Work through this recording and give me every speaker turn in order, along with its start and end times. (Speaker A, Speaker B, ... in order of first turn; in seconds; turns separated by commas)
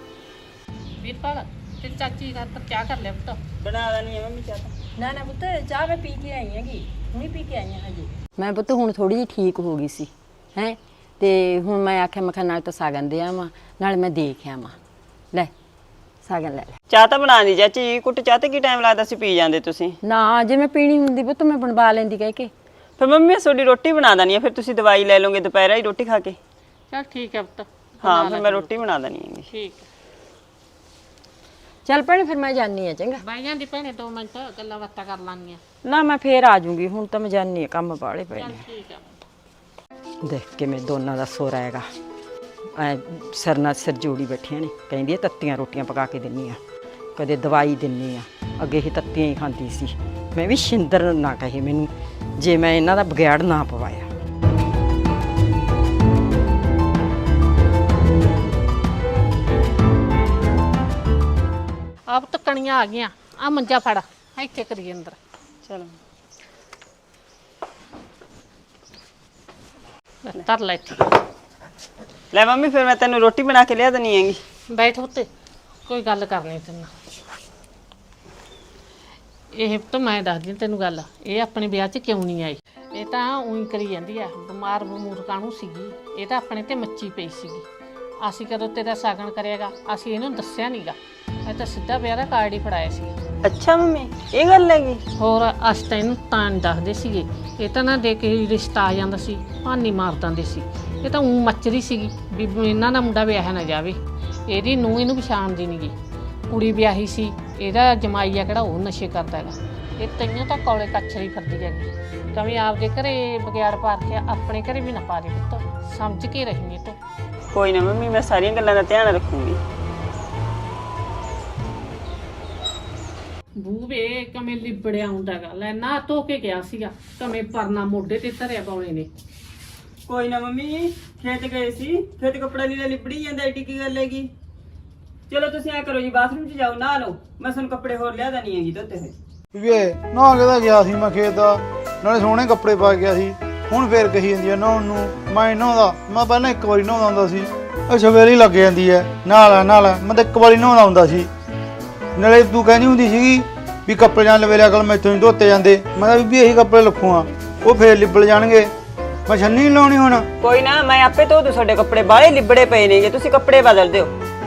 Speaker A: 1.0-3.4, Speaker B: 3.6-4.7, Speaker C: 5.0-14.8, Speaker C: 16.2-16.8, Speaker B: 16.9-20.0, Speaker C: 20.0-22.5, Speaker B: 23.0-26.4, Speaker A: 26.9-28.7, Speaker B: 28.0-29.5, Speaker A: 29.5-29.8, Speaker C: 31.9-33.2, Speaker A: 33.2-35.6, Speaker C: 35.8-38.6, Speaker A: 38.4-39.1, Speaker C: 40.2-41.9, Speaker C: 42.8-46.6, Speaker C: 47.2-54.1, Speaker A: 62.1-65.2, Speaker B: 65.7-66.0, Speaker A: 70.3-71.0, Speaker B: 72.3-74.4, Speaker A: 74.7-75.3, Speaker A: 75.9-76.9, Speaker A: 79.5-87.7, Speaker A: 88.2-93.1, Speaker B: 93.4-95.0, Speaker A: 95.2-104.0, Speaker A: 104.5-105.9, Speaker A: 106.5-117.0, Speaker B: 117.5-119.6, Speaker A: 123.6-129.1, Speaker B: 130.1-134.3, Speaker B: 135.3-139.2, Speaker D: 139.5-151.3, Speaker D: 152.2-158.7, Speaker D: 159.3-160.3, Speaker B: 160.4-164.1